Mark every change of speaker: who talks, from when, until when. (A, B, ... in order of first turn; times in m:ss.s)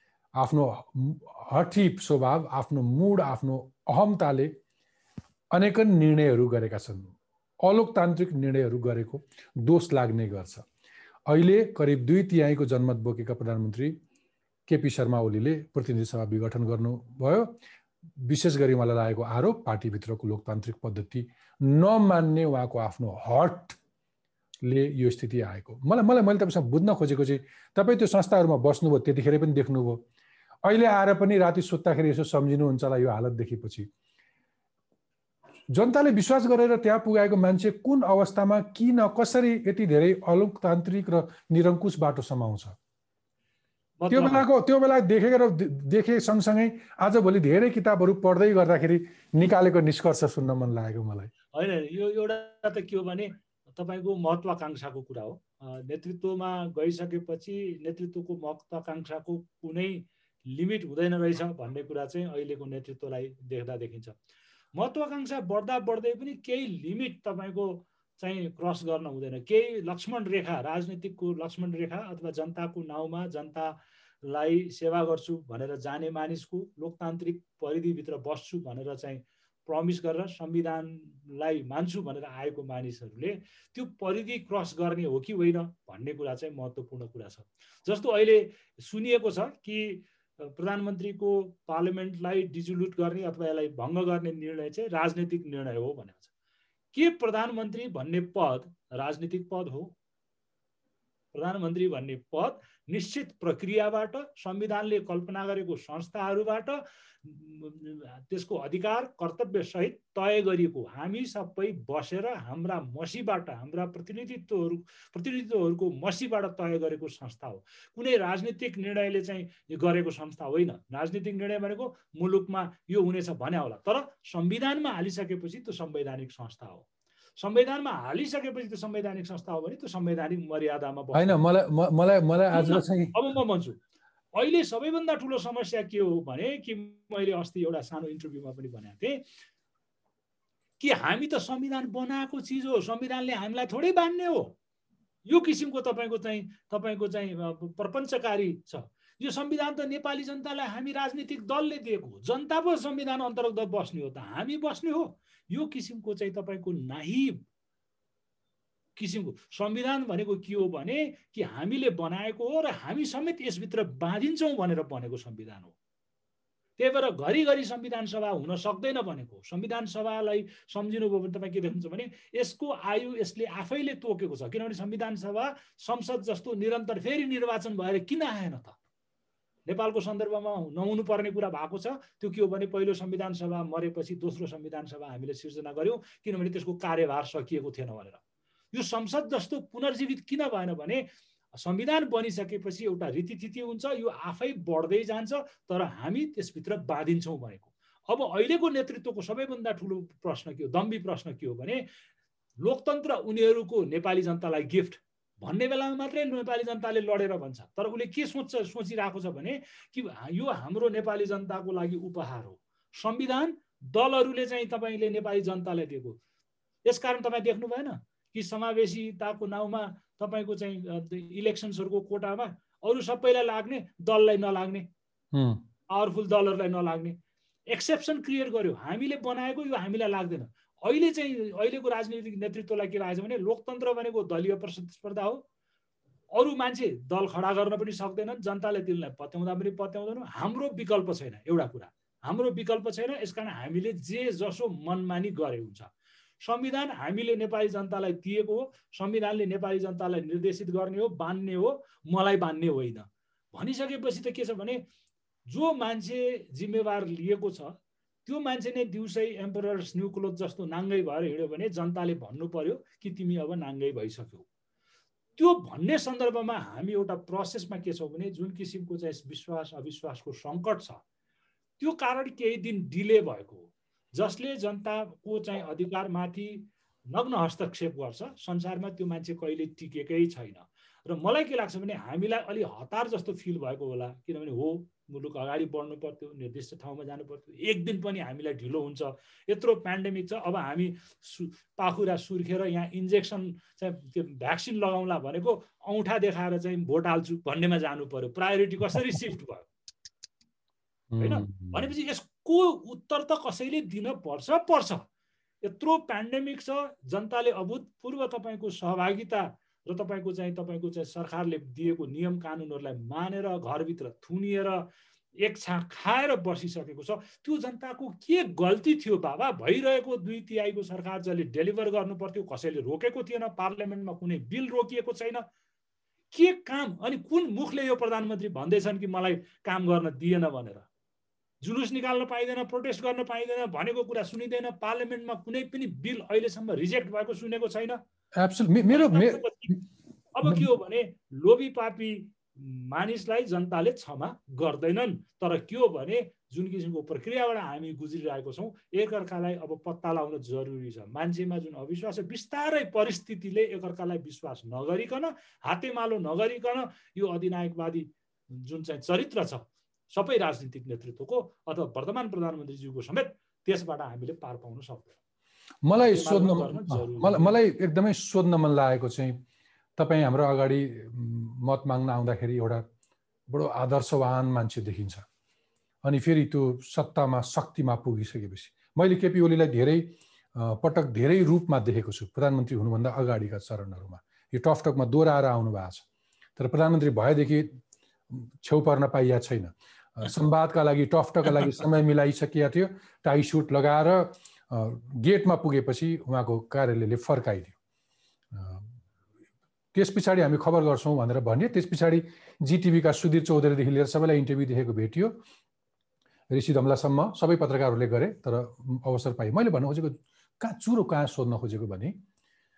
0:00.4-0:04.6 A
0:05.5-0:10.7 A
0:11.3-0:14.0 A
0:14.7-0:17.6 A
0:18.2-0:23.8 A
0:24.6-0:30.0 A
0:30.6-0:33.9 A
0:35.7-0:42.8 A
0:44.0-0:44.5 B
0:44.1-0:51.3 A
0:51.5-1:04.2 B
1:04.8-1:36.3 B
1:36.9-1:39.9 B
1:41.3-2:06.9 B
2:07.4-2:11.4 B
2:11.1-2:13.2 A
2:12.5-2:13.8 B
2:14.4-2:19.2 B
2:20.8-2:24.6 B
2:25.3-2:37.4 B
2:39.0-2:45.7 B
2:46.8-2:58.8 B
2:59.7-3:08.2 B
3:08.7-3:11.0 B
3:11.6-3:21.8 B
3:22.6-3:36.2 B
3:36.9-3:44.9 B
3:45.3-3:45.6 A
3:45.9-3:47.2 B
3:47.7-3:55.4 B
3:56.3-4:05.9 B
4:06.4-4:14.8 B
4:15.5-4:17.7 B
4:18.3-4:24.4 B
4:25.4-4:31.0 B
4:31.8-4:59.7 B
5:01.1-5:01.9 A
5:01.2-5:05.0 B
5:05.6-5:14.8 B
5:15.4-5:25.4 B
5:26.3-5:30.9 B
5:31.6-5:38.0 B
5:38.4-5:39.7 A
5:38.9-5:39.8 B
5:40.3-6:05.2 B
6:05.8-6:09.4 A
6:06.0-6:07.6 B
6:10.0-6:12.8 A
6:13.5-6:15.2 A
6:16.0-6:26.0 A
6:26.6-6:27.8 A
6:28.3-6:37.7 A
6:38.5-6:38.9 A
6:39.9-6:45.4 A
6:46.5-6:52.2 A